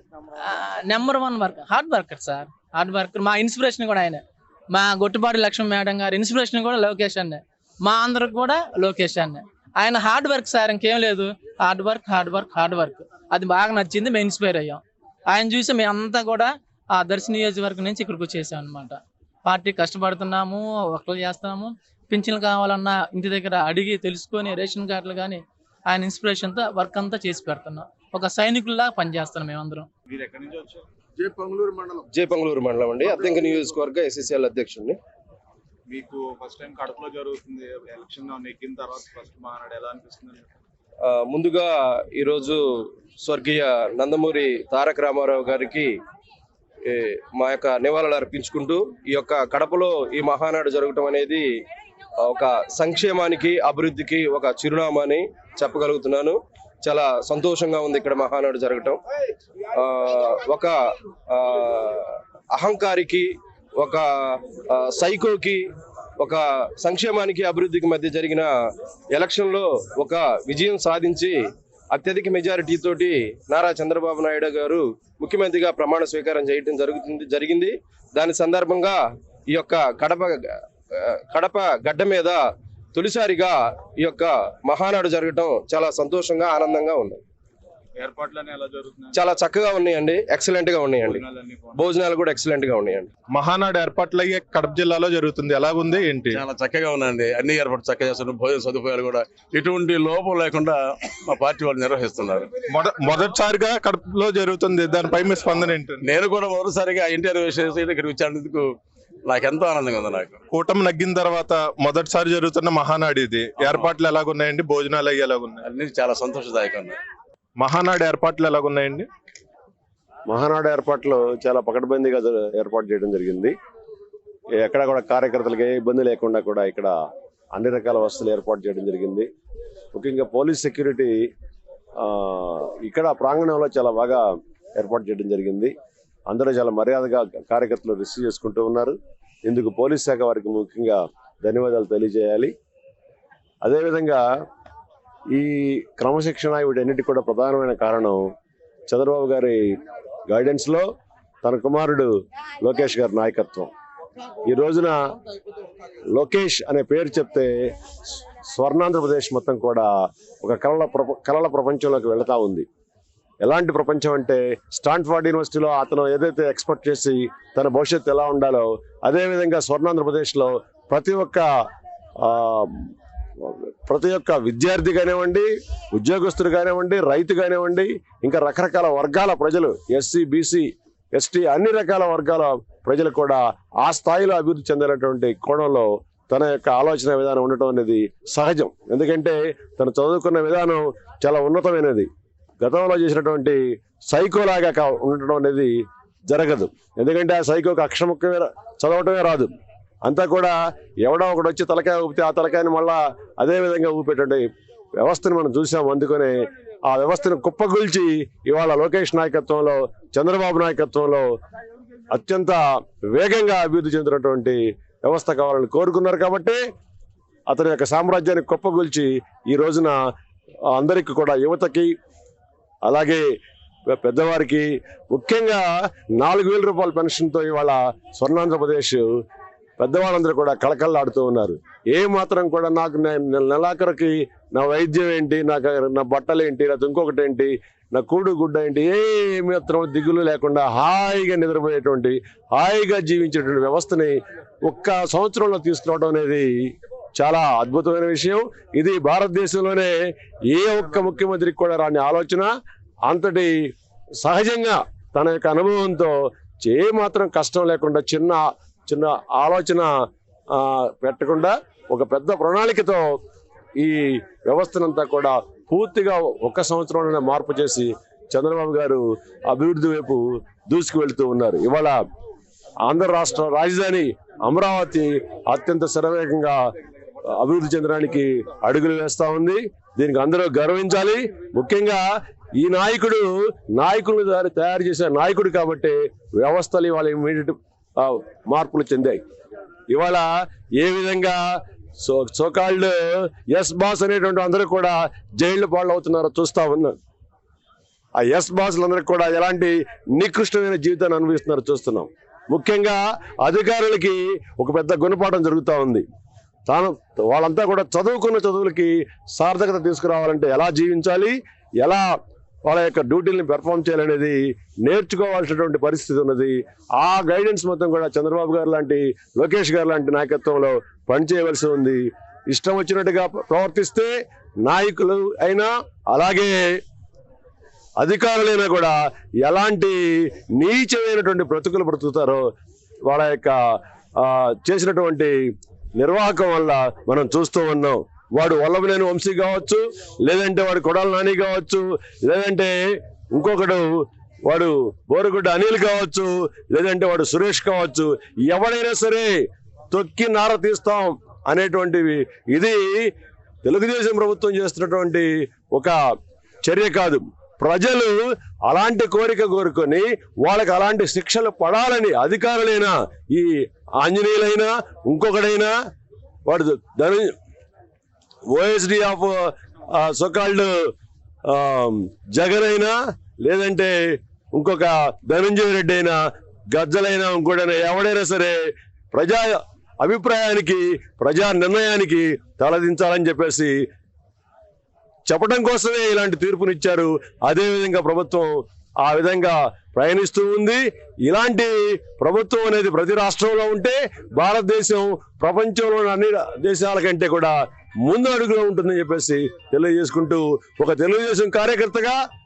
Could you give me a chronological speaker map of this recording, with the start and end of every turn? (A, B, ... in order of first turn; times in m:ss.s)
0:00.4-0:29.9 A
0:30.1-0:30.8 B
0:31.2-0:32.0 C
0:32.1-0:35.0 D
0:35.9-0:40.4 B
0:41.0-0:42.6 D
0:43.2-0:45.9 D
0:46.9-0:51.4 D
0:52.2-0:59.0 D
0:59.8-1:00.7 D
1:01.3-1:04.0 D
1:04.7-1:05.6 D
1:06.2-1:08.5 D
1:09.1-1:11.4 D
1:11.9-1:19.0 D
1:19.5-1:20.4 D
1:21.0-1:22.4 D
1:23.0-1:27.2 D
1:28.0-1:29.2 B
1:29.1-1:31.2 D
1:31.2-1:31.7 B
1:31.7-1:33.1 D
1:33.3-1:36.4 E
1:36.3-1:42.5 C
1:42.7-1:46.0 E
1:45.6-1:50.4 C
1:50.5-1:55.6 E
1:53.6-1:54.0 C
1:55.6-1:57.0 C
1:57.6-1:59.1 E
2:00.3-2:03.6 F
2:04.6-2:06.9 F
2:07.6-2:09.3 F
2:10.0-2:11.2 F
2:12.0-2:14.2 F
2:14.8-2:15.7 F
2:16.3-2:19.0 F
2:19.5-2:22.5 F
2:23.6-2:24.2 F
2:25.3-2:28.3 F
2:28.9-2:29.8 F
2:30.3-2:30.9 F
2:31.4-2:32.1 F
2:32.6-2:33.7 F
2:34.4-2:35.0 F
2:36.1-2:37.5 F
2:38.5-2:39.9 F
2:40.4-2:42.7 F
2:43.4-2:51.5 F
2:52.2-2:52.8 F
2:53.4-3:12.1 F
3:12.6-3:15.8 F
3:16.3-3:19.5 F
3:20.0-3:24.4 F
3:25.0-3:26.3 F
3:26.9-3:31.3 F
3:32.1-3:32.6 F
3:33.2-3:36.6 F
3:37.5-3:40.0 F
3:40.7-3:41.9 F
3:42.8-3:43.2 F
3:44.0-3:49.1 F
3:49.8-4:06.5 F
4:07.2-4:09.9 F
4:10.5-4:12.5 F
4:13.1-4:13.5 F
4:14.2-4:19.9 F
4:20.5-4:23.2 F
4:23.8-4:32.0 F
4:32.9-4:36.6 F
4:37.3-4:42.0 F
4:42.6-4:49.2 F
4:49.9-4:51.4 F
4:52.0-4:57.0 F
4:58.2-5:06.0 F
5:06.7-5:12.1 F
5:12.7-5:24.1 F
5:24.6-5:26.6 F
5:28.0-5:32.4 F
5:33.1-5:33.6 F
5:34.2-5:35.3 F
5:36.0-5:42.8 F
5:43.3-5:43.9 F
5:44.5-5:49.4 F
5:49.9-5:53.1 F
5:53.6-5:56.0 F
5:56.6-6:05.7 F
6:06.5-6:07.4 F
6:08.5-6:10.7 F
6:11.5-6:13.9 F
6:14.5-6:16.2 F
6:16.7-6:18.6 F
6:19.1-6:23.8 F
6:25.3-6:42.2 F